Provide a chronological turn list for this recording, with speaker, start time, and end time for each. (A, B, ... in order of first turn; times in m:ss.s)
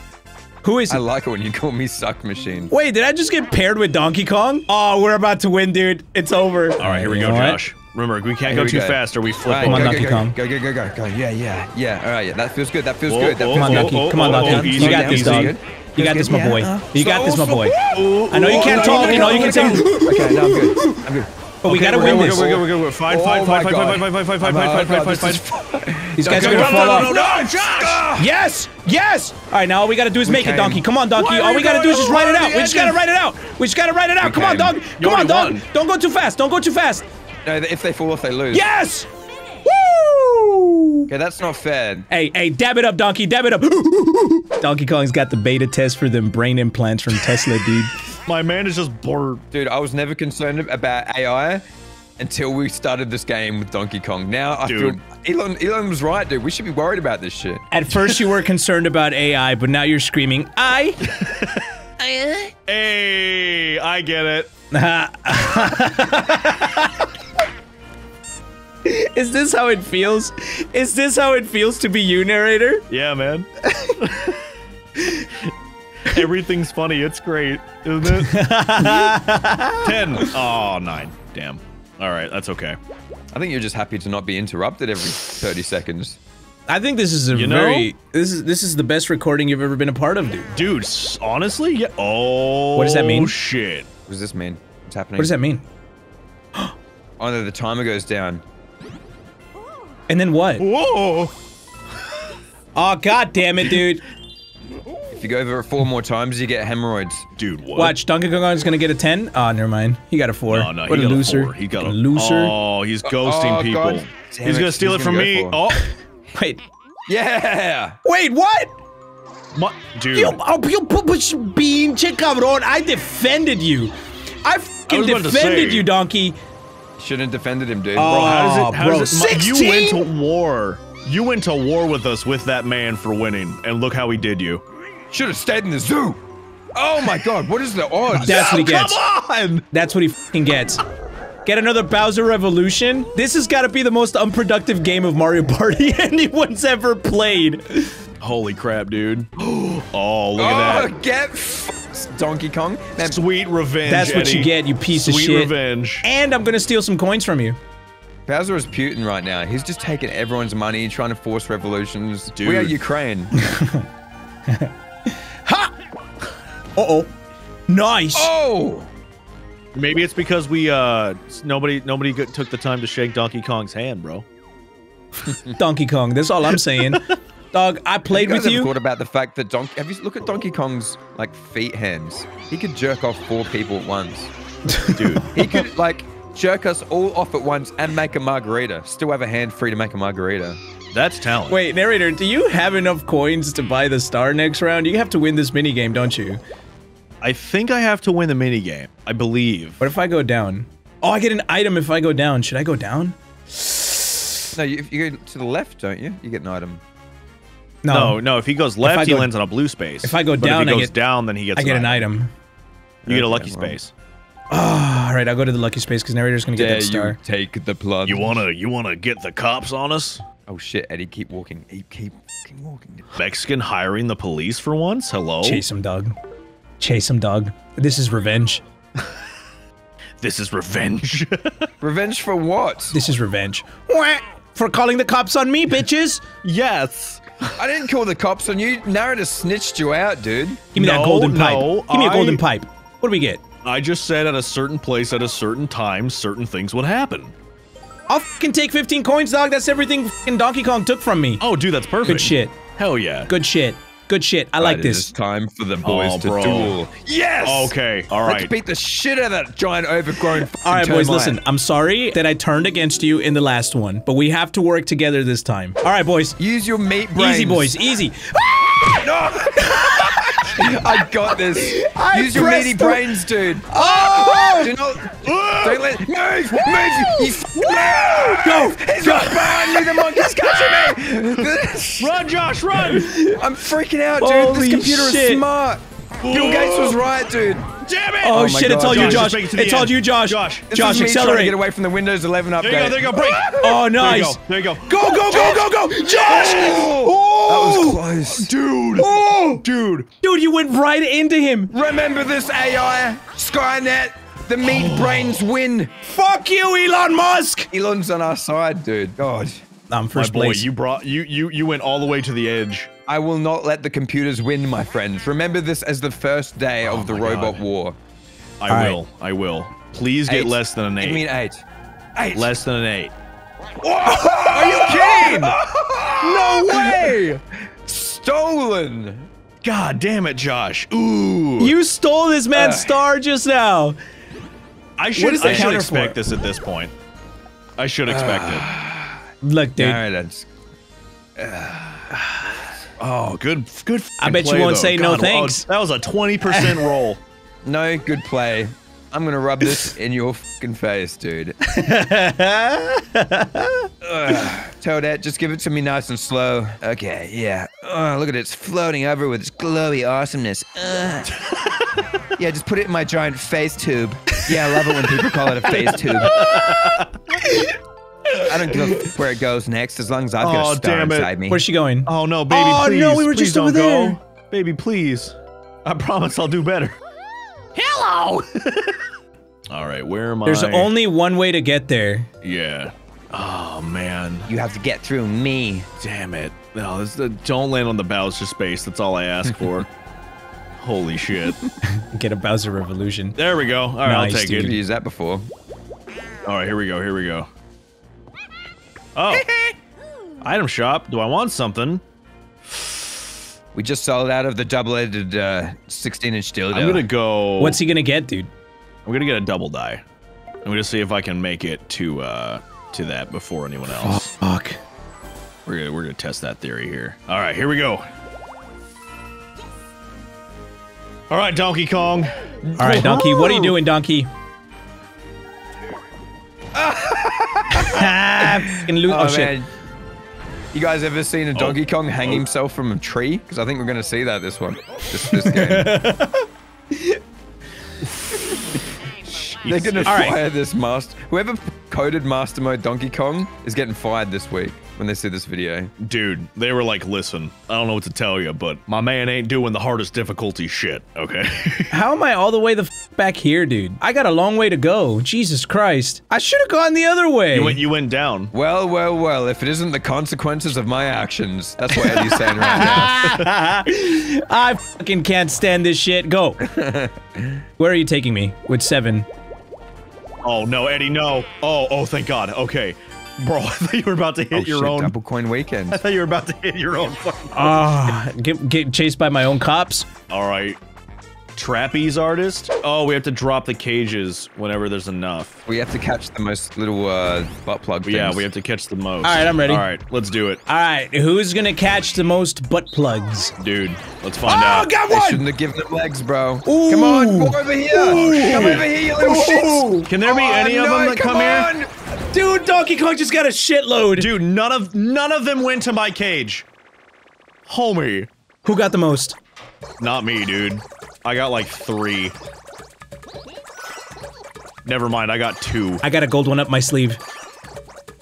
0:00.6-0:01.0 A
0:00.9-0:02.7 B
0:02.7-0:07.6 A
0:06.8-0:10.2 C
0:06.8-0:07.1 B
0:08.4-0:28.3 B
0:09.6-0:10.3 A
0:13.1-0:15.5 C
0:13.5-0:17.8 A
0:17.9-0:19.8 C
0:18.3-0:21.1 A
0:21.6-0:22.6 A
0:21.6-0:25.4 C
0:26.2-0:27.2 A
0:26.2-0:28.1 C
0:28.2-0:37.0 A
0:30.2-0:30.8 B
0:31.2-0:33.0 C
0:34.2-0:34.8 B
0:35.0-0:35.6 C
0:37.4-0:38.6 B
0:38.5-0:39.1 A
0:39.6-0:41.1 A
0:41.1-0:42.1 B
0:42.1-0:48.0 A
0:48.1-0:49.4 C
0:49.5-0:51.6 B
0:52.2-0:57.6 B
0:54.6-0:55.0 C
0:57.7-1:01.0 A
0:58.0-0:58.2 C
1:01.1-1:01.7 C
1:02.0-1:02.5 B
1:02.7-1:04.5 C
1:04.7-1:07.1 A
1:08.8-1:12.8 A
1:12.9-1:14.4 C
1:13.7-1:14.0 A
1:15.0-1:15.3 A
1:16.0-1:19.1 C
1:18.2-1:20.3 A
1:19.8-1:22.8 C
1:23.3-1:26.2 B
1:26.7-1:30.5 A
1:27.3-1:27.9 C
1:30.5-1:33.9 C
1:32.7-1:33.3 A
1:34.1-1:35.3 B
1:35.2-1:35.6 A
1:37.2-1:38.4 B
1:40.1-1:40.6 A
1:40.6-1:41.3 C
1:42.7-1:44.0 A
1:45.1-1:47.3 B
1:47.4-1:48.0 C
1:47.7-1:52.5 A
1:50.5-1:55.8 C
1:53.0-1:55.6 B
1:55.7-1:56.6 A
1:57.1-1:58.0 B
1:58.0-1:58.7 A
1:59.5-2:00.4 C
2:00.1-2:06.4 A
2:04.9-2:05.9 C
2:07.0-2:08.2 B
2:08.0-2:10.0 A
2:08.0-2:14.6 C
2:15.1-2:16.2 B
2:16.7-2:18.6 B
2:18.1-2:19.6 C
2:18.1-2:19.0 A
2:19.7-2:20.8 A
2:21.4-2:28.0 A
2:28.2-2:30.9 C
2:30.4-2:33.2 B
2:33.0-2:36.0 C
2:33.9-2:37.6 A
2:38.3-2:43.3 B
2:42.3-2:42.8 C
2:43.4-2:43.9 A
2:44.5-2:45.7 A
2:46.8-2:47.1 A
2:47.7-2:48.3 A
2:48.1-2:48.9 B
2:49.7-2:54.2 C
2:55.3-2:55.5 B
2:55.6-2:58.7 A
2:58.1-3:04.3 B
3:04.7-3:05.2 A
3:04.9-3:05.3 C
3:05.3-3:10.6 B
3:10.9-3:11.6 C
3:11.5-3:16.4 A
3:17.2-3:19.8 C
3:19.8-3:24.4 A
3:24.5-3:26.8 B
3:27.8-3:28.2 A
3:27.9-3:32.1 C
3:28.8-3:29.3 A
3:30.0-3:30.9 A
3:31.5-3:32.3 A
3:33.0-3:33.8 B
3:33.1-3:33.9 C
3:34.5-3:37.2 A
3:36.5-3:38.4 B
3:38.0-3:40.2 C
3:40.5-3:43.1 B
3:43.1-3:45.6 C
3:45.4-3:46.2 A
3:46.8-3:48.6 A
3:50.2-3:51.7 C
3:51.8-3:53.0 B
3:52.9-3:56.2 A
3:56.4-3:57.6 C
3:57.6-4:00.6 B
4:00.7-4:03.4 A
4:00.7-4:02.4 C
4:03.6-4:07.3 C
4:08.1-4:11.4 A
4:11.4-4:13.3 C
4:12.0-4:12.7 A
4:13.3-4:15.1 A
4:14.6-4:21.4 B
4:15.8-4:16.8 C
4:17.4-4:18.5 C
4:20.5-4:26.4 A
4:26.4-4:27.7 B
4:27.1-4:30.7 A
4:29.0-4:42.2 B
4:31.5-4:33.2 A
4:33.7-4:34.7 A
4:35.2-4:36.0 C
4:36.8-4:40.8 A
4:42.0-4:43.2 C
4:42.8-4:43.4 A
4:43.3-4:47.7 B
4:44.2-4:45.4 A
4:46.2-4:47.0 C
4:47.8-4:50.7 C
4:48.2-4:51.6 A
4:48.2-4:49.4 B
4:50.7-4:53.8 B
4:52.6-4:55.6 C
4:53.6-4:58.0 A
4:55.3-4:58.5 B
4:56.3-4:56.8 C
4:58.3-5:00.1 C
4:59.0-4:59.6 A
5:00.2-5:01.7 A
5:01.7-5:05.9 B
5:04.6-5:05.5 C
5:06.0-5:07.7 A
5:07.7-5:09.6 B
5:09.9-5:10.7 A
5:10.1-5:12.9 C
5:13.1-5:18.0 B
5:16.8-5:17.6 C
5:18.6-5:21.2 C
5:18.7-5:19.0 A
5:20.3-5:21.6 B
5:22.2-5:22.5 B
5:22.3-5:23.1 C
5:23.8-5:27.3 B
5:24.3-5:25.6 C
5:26.2-5:27.4 C
5:27.8-5:29.3 B
5:29.6-5:31.7 C
5:31.6-5:34.0 A
5:32.5-5:33.0 B
5:35.0-5:36.9 C
5:35.2-5:36.2 A
5:35.4-5:35.7 B
5:37.8-5:38.7 C
5:38.1-5:39.2 B
5:39.4-5:40.0 A
5:39.8-5:40.5 B
5:41.4-5:42.1 B
5:43.0-5:43.4 B
5:43.4-5:47.2 C
5:44.2-5:45.6 A
5:46.5-5:46.9 A
5:47.6-5:51.6 B
5:51.6-5:53.9 A
5:54.0-6:01.4 B
6:02.3-6:06.5 B
6:05.7-6:07.8 A
6:06.2-6:07.3 C
6:08.4-6:11.6 B
6:10.4-6:11.3 C
6:11.5-6:14.2 A
6:12.0-6:17.0 C
6:17.7-6:19.0 C
6:19.7-6:20.9 C
6:20.4-6:22.3 A
6:22.4-6:24.5 C
6:24.5-6:25.9 B
6:26.0-6:29.9 C
6:30.8-6:31.7 C
6:31.9-6:33.4 A
6:33.4-6:34.8 C
6:34.0-6:34.8 A
6:34.6-6:35.5 B
6:36.4-6:37.5 C
6:39.1-6:39.5 C
6:40.4-6:42.0 C
6:42.7-6:43.1 C
6:43.7-6:47.1 B
6:46.7-6:47.8 C
6:47.6-6:48.5 A
6:49.0-6:50.0 C
6:50.6-6:54.2 C
6:54.0-6:54.8 A
6:55.6-6:58.1 C
7:01.3-7:03.7 C
7:02.7-7:03.2 B
7:02.8-7:04.3 A
7:06.7-7:09.7 B
7:07.7-7:09.5 A
7:10.7-7:15.9 B
7:11.5-7:12.4 C
7:15.3-7:17.2 A
7:18.0-7:18.4 C
7:19.3-7:20.3 C
7:19.6-7:25.9 B
7:20.0-7:20.4 A
7:26.0-7:32.0 C
7:31.9-7:37.8 A
7:37.5-7:38.5 C
7:38.5-7:43.1 B
7:42.0-7:46.6 A
7:43.2-7:43.5 C
7:46.6-7:47.6 B
7:47.8-7:49.3 A
7:50.4-7:55.1 C
7:54.5-7:56.0 B
7:55.9-7:58.1 C
7:57.5-8:00.1 A
8:00.3-8:00.8 C
8:01.5-8:05.6 C
8:05.6-8:08.4 B
8:08.0-8:10.6 C
8:09.2-8:09.9 A
8:10.7-8:13.5 A
8:13.6-8:14.9 C
8:14.4-8:15.4 A
8:15.1-8:21.9 B
8:16.6-8:20.1 A
8:18.2-8:18.9 C
8:20.0-8:21.7 C
8:22.2-8:24.3 A
8:24.2-8:26.6 C
8:27.6-8:28.3 C
8:28.6-8:29.4 A
8:30.0-8:32.3 C
8:34.8-8:36.0 C
8:36.0-8:37.2 A